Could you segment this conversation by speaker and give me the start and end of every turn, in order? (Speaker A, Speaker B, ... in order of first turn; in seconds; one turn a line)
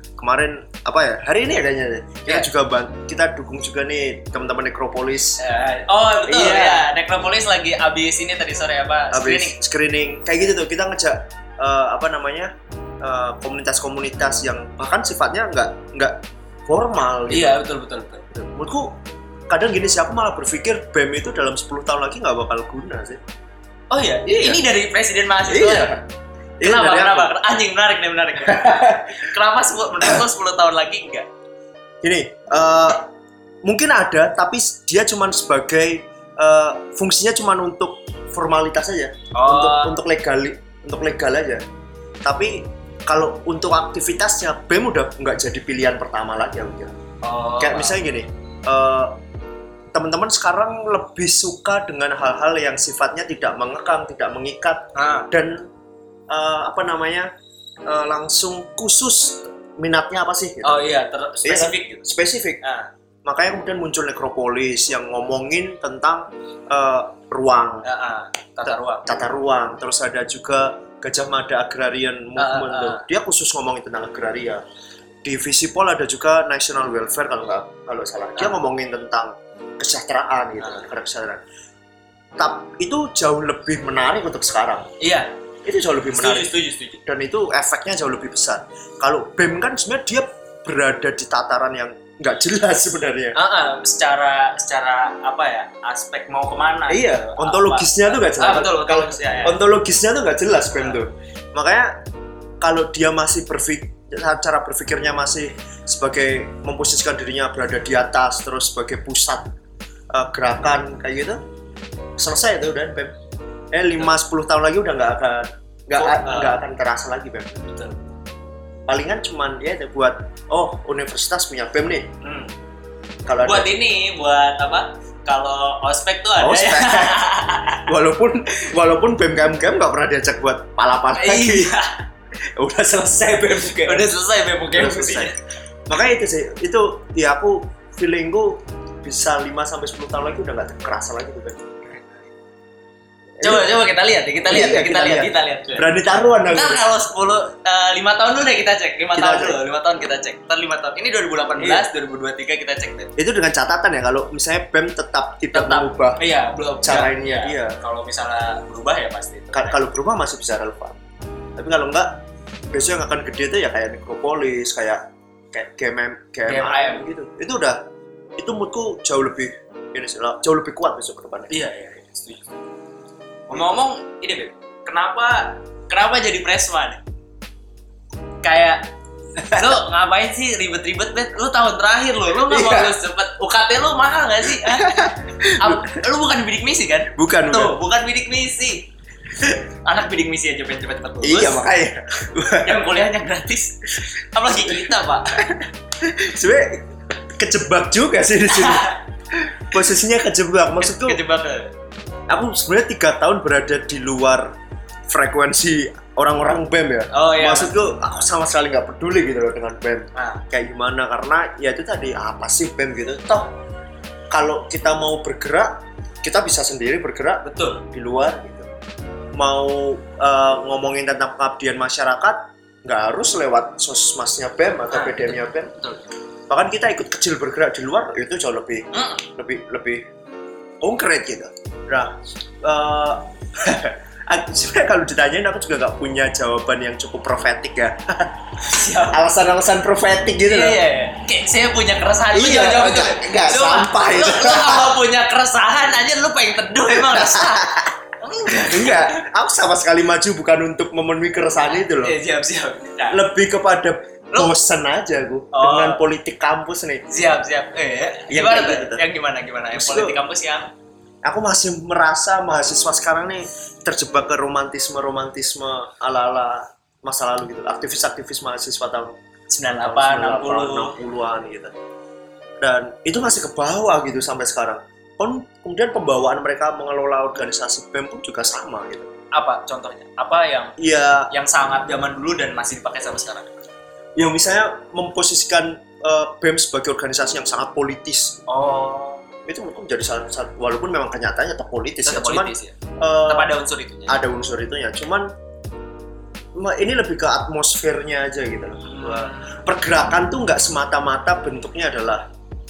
Speaker A: 0.2-5.4
Speaker B: 5.4-9.6
Speaker A: 6.2-6.9
Speaker A: 9.1-12.5
Speaker A: 13.0-16.2
Speaker A: 16.7-17.6
Speaker B: 17.3-18.2
Speaker A: 18.3-18.9
Speaker A: 19.5-23.2
Speaker B: 23.9-25.9
Speaker A: 24.3-24.6
Speaker A: 25.5-26.0
Speaker A: 26.6-27.3
Speaker B: 26.6-31.3
Speaker A: 28.4-29.2
Speaker A: 32.0-33.1
Speaker A: 33.6-41.6
Speaker B: 39.4-40.0
Speaker A: 42.2-47.0
Speaker B: 47.2-48.0
Speaker A: 47.6-49.1
Speaker A: 49.9-55.7
Speaker B: 55.0-55.3
Speaker A: 56.3-57.3
Speaker A: 57.9-60.8
Speaker B: 60.6-62.0
Speaker A: 61.4-62.6
Speaker B: 62.6-62.9
Speaker A: 63.3-67.9
Speaker B: 67.8-69.1
Speaker A: 68.6-74.6
Speaker B: 72.4-73.0
Speaker A: 75.2-81.4
Speaker A: 82.4-84.9
Speaker B: 85.0-85.3
Speaker A: 85.7-86.5
Speaker B: 86.1-87.0
Speaker A: 87.0-93.4
Speaker B: 93.4-99.6
Speaker A: 96.9-102.0
Speaker A: 102.6-109.5
Speaker A: 110.1-111.4
Speaker A: 112.2-113.2
Speaker A: 113.7-117.7
Speaker B: 116.0-116.6
Speaker A: 118.9-122.1
Speaker B: 122.2-122.5
Speaker A: 123.3-123.7
Speaker B: 123.4-127.9
Speaker A: 126.4-127.2
Speaker A: 127.9-131.7
Speaker B: 131.2-132.0
Speaker A: 132.6-134.1
Speaker B: 133.9-135.4
Speaker A: 134.7-135.3
Speaker A: 135.9-141.6
Speaker A: 143.4-143.7
Speaker B: 143.4-145.8
Speaker A: 144.5-146.8
Speaker B: 146.5-153.1
Speaker A: 149.2-149.6
Speaker A: 151.6-151.9
Speaker A: 153.2-156.2
Speaker B: 155.5-159.8
Speaker A: 156.8-157.8
Speaker A: 159.5-161.0
Speaker A: 161.6-162.2
Speaker A: 162.7-165.0
Speaker A: 165.5-167.8
Speaker B: 166.5-167.1
Speaker A: 168.4-171.6
Speaker B: 171.5-172.6
Speaker B: 173.5-177.0
Speaker B: 178.4-178.8
Speaker B: 179.4-184.9
Speaker A: 182.5-182.9
Speaker A: 184.6-186.0
Speaker B: 185.6-188.9
Speaker A: 187.2-187.8
Speaker B: 189.4-191.6
Speaker A: 191.2-192.8
Speaker B: 192.5-195.3
Speaker A: 194.5-194.8
Speaker A: 195.4-196.8
Speaker A: 197.4-201.2
Speaker B: 198.5-199.0
Speaker B: 200.8-201.7
Speaker A: 202.3-204.5
Speaker A: 205.1-213.5
Speaker B: 207.1-207.7
Speaker B: 210.2-210.4
Speaker A: 214.3-218.7
Speaker B: 217.4-217.8
Speaker A: 219.4-225.7
Speaker B: 224.9-226.0
Speaker A: 226.5-228.8
Speaker B: 228.9-229.2
Speaker A: 229.4-230.0
Speaker A: 230.8-238.3
Speaker B: 238.6-239.2
Speaker A: 239.1-240.8
Speaker B: 240.5-247.7
Speaker A: 242.3-244.9
Speaker A: 246.9-247.9
Speaker B: 248.2-249.2
Speaker A: 248.7-252.2
Speaker B: 251.7-253.2
Speaker A: 253.1-257.0
Speaker B: 255.5-256.0
Speaker B: 257.1-260.7
Speaker A: 258.3-259.0
Speaker A: 259.8-260.2
Speaker A: 261.3-269.1
Speaker B: 269.5-270.9
Speaker A: 269.7-271.7
Speaker A: 272.6-279.1
Speaker B: 279.3-280.8
Speaker A: 280.8-281.3
Speaker B: 281.3-283.5
Speaker A: 284.2-288.4
Speaker B: 288.5-289.2
Speaker A: 289.5-293.5
Speaker B: 292.1-292.8
Speaker B: 293.3-294.2
Speaker A: 294.1-295.3
Speaker A: 296.6-302.2
Speaker B: 298.9-299.6